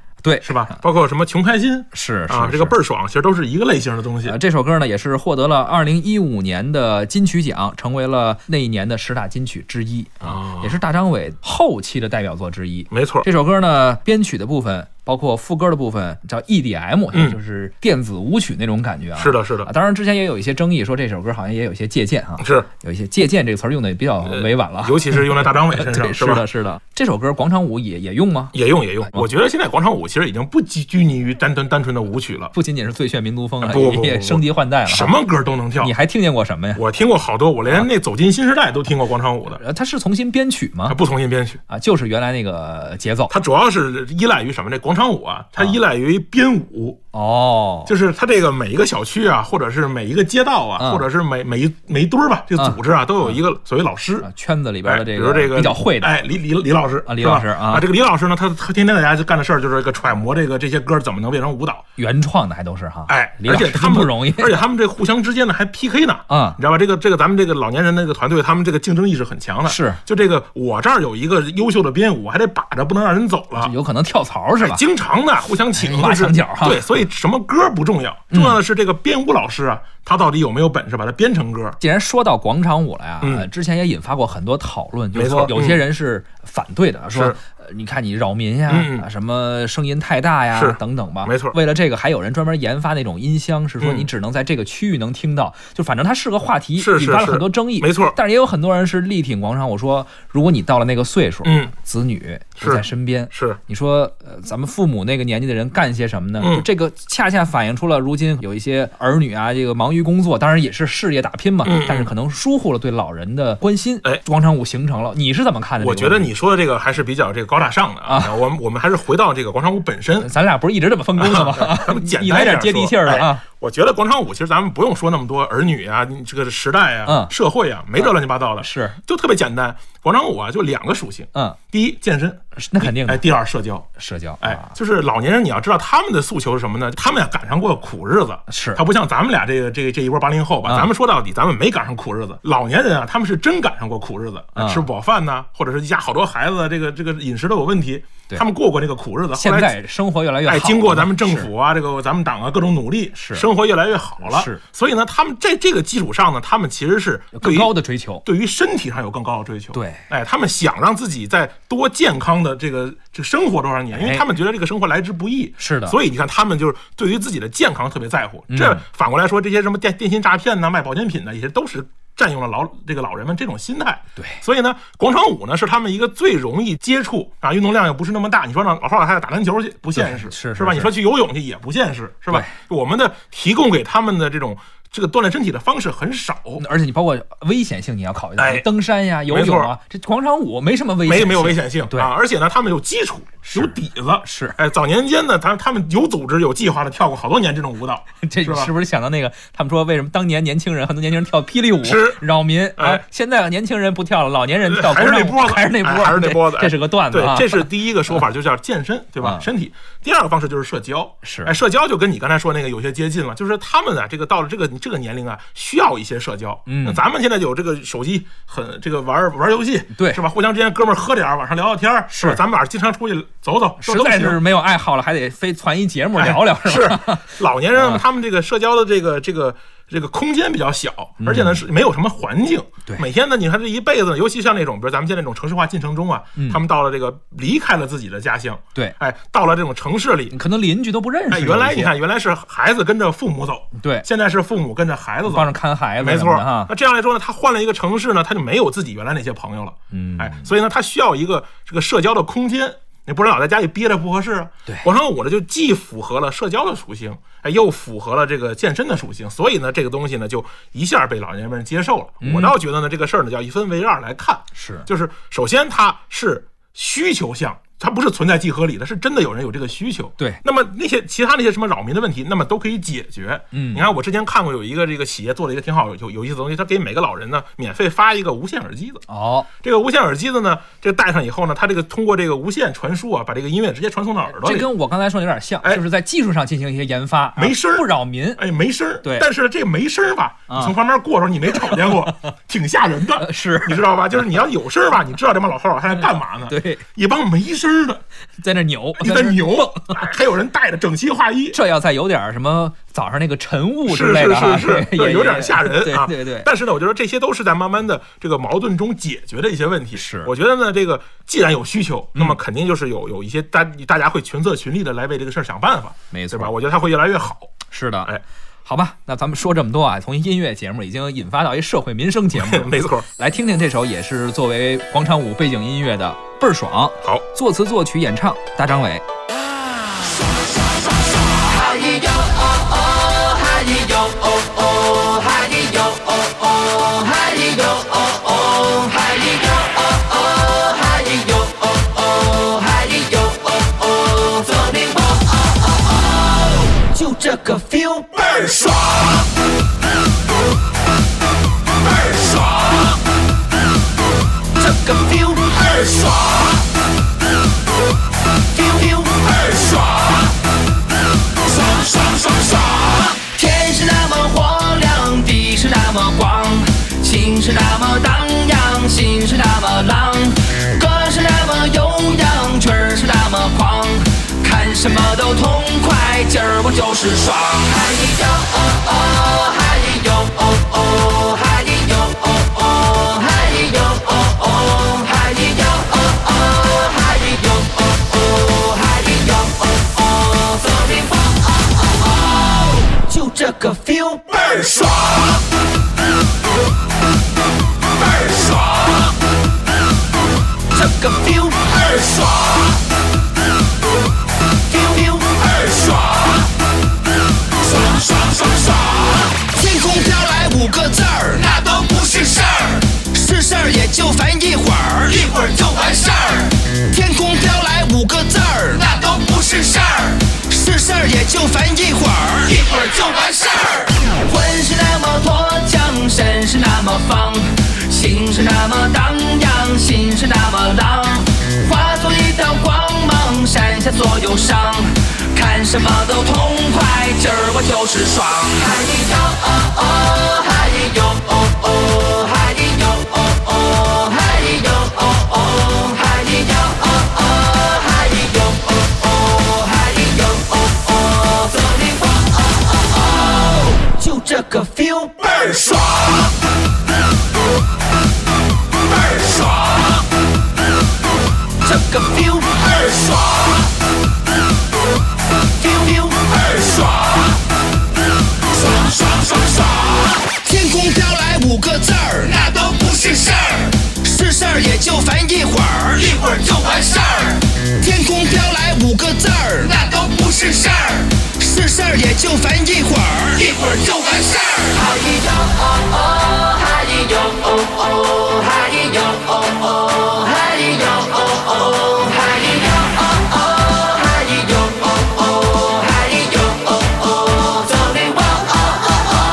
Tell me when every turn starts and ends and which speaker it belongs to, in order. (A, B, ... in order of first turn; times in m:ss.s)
0:00.2-0:00.7 A
0:00.4-0:04.4 B
0:01.9-0:02.8 A
0:04.2-0:28.6 A
0:10.2-0:10.8 B
0:12.9-0:13.3 B
0:19.2-0:19.7 B
0:22.4-0:22.7 B
0:24.3-0:26.5 B
0:28.5-0:32.5 B
0:32.5-0:35.1 A
0:33.6-0:35.9 B
0:35.8-0:36.8 A
0:36.8-0:39.6 B
0:39.6-0:41.0 A
0:40.9-0:41.6 B
0:41.7-0:43.3 A
0:43.3-0:47.0 B
0:47.1-0:47.9 A
0:47.9-0:54.3 B
0:50.8-0:51.0 A
0:54.2-0:56.2 A
0:54.8-1:01.8 B
0:57.1-0:57.8 A
1:02.0-1:04.6 A
1:03.1-1:13.7 B
1:06.3-1:06.6 A
1:09.7-1:10.0 A
1:13.6-1:14.8 A
1:14.6-1:21.8 B
1:15.8-1:16.8 A
1:18.3-1:18.6 A
1:21.8-1:56.3 A
1:23.2-1:23.5 B
1:25.1-1:25.8 B
1:27.1-1:27.4 B
1:28.7-1:29.1 B
1:30.6-1:31.6 B
1:33.8-1:34.1 B
1:36.8-1:38.2 B
1:41.4-1:41.7 B
1:42.6-1:43.6 B
1:46.4-1:46.7 B
1:51.6-1:52.1 B
1:55.8-2:00.3 B
1:58.1-1:58.4 A
2:00.2-2:03.4 A
2:01.2-2:13.9 B
2:07.1-2:07.3 A
2:08.6-2:09.0 A
2:12.6-2:13.3 A
2:14.0-2:14.7 A
2:14.4-2:29.8 B
2:18.5-2:18.8 A
2:24.6-2:24.9 A
2:29.3-2:31.5 A
2:30.5-2:37.7 B
2:33.2-2:33.5 A
2:34.2-2:34.6 A
2:37.4-2:38.2 A
2:38.2-3:06.6 B
2:39.7-2:40.0 A
2:44.0-2:44.3 A
2:45.6-2:46.0 A
2:48.5-2:48.8 A
3:00.0-3:00.9 A
3:06.6-3:12.1 A
3:08.4-3:08.7 B
3:09.3-3:09.7 B
3:11.0-3:18.7 B
3:13.5-3:14.6 A
3:18.2-3:28.2 A
3:21.8-3:22.2 B
3:22.8-3:23.0 B
3:24.7-3:44.4 B
3:29.2-3:29.5 A
3:31.2-3:31.6 A
3:36.7-3:37.0 A
3:40.0-3:40.2 A
3:42.1-3:42.4 A
3:43.8-3:48.0 A
3:46.2-4:00.3 B
3:51.2-3:51.6 A
4:00.3-4:01.9 A
4:01.3-4:39.0 B
4:03.8-4:04.1 A
4:05.3-4:06.7 A
4:09.9-4:10.5 A
4:22.2-4:22.5 A
4:24.6-4:24.9 A
4:33.5-4:33.9 A
4:39.1-4:39.5 A
4:39.6-4:44.7 B
4:44.3-4:48.4 A
4:47.4-4:58.0 B
4:53.2-4:53.8 A
4:56.5-4:56.8 A
4:58.4-4:59.9 A
4:59.0-5:01.6 B
5:01.5-5:06.5 A
5:03.9-5:18.2 B
5:10.0-5:10.3 A
5:16.1-5:16.5 A
5:17.7-5:18.1 A
5:18.6-5:29.0 A
5:22.3-5:23.1 B
5:31.5-5:45.3 C
5:46.8-5:48.7 C
5:54.7-5:56.0 C
5:58.7-5:59.8 C
6:03.2-6:26.0 C
6:06.3-6:06.7 A
6:07.5-6:07.9 A
6:27.0-6:27.4 C
6:28.6-6:29.4 C
6:30.5-6:31.1 C
6:32.9-6:34.9 C
6:40.8-6:41.9 C
6:44.8-6:45.6 C
6:49.5-7:26.9 C
7:29.6-7:30.4 C
7:33.8-7:35.8 C
7:41.7-7:42.9 C
7:45.7-7:46.8 C
7:50.3-8:13.0 C
8:13.8-8:18.9 C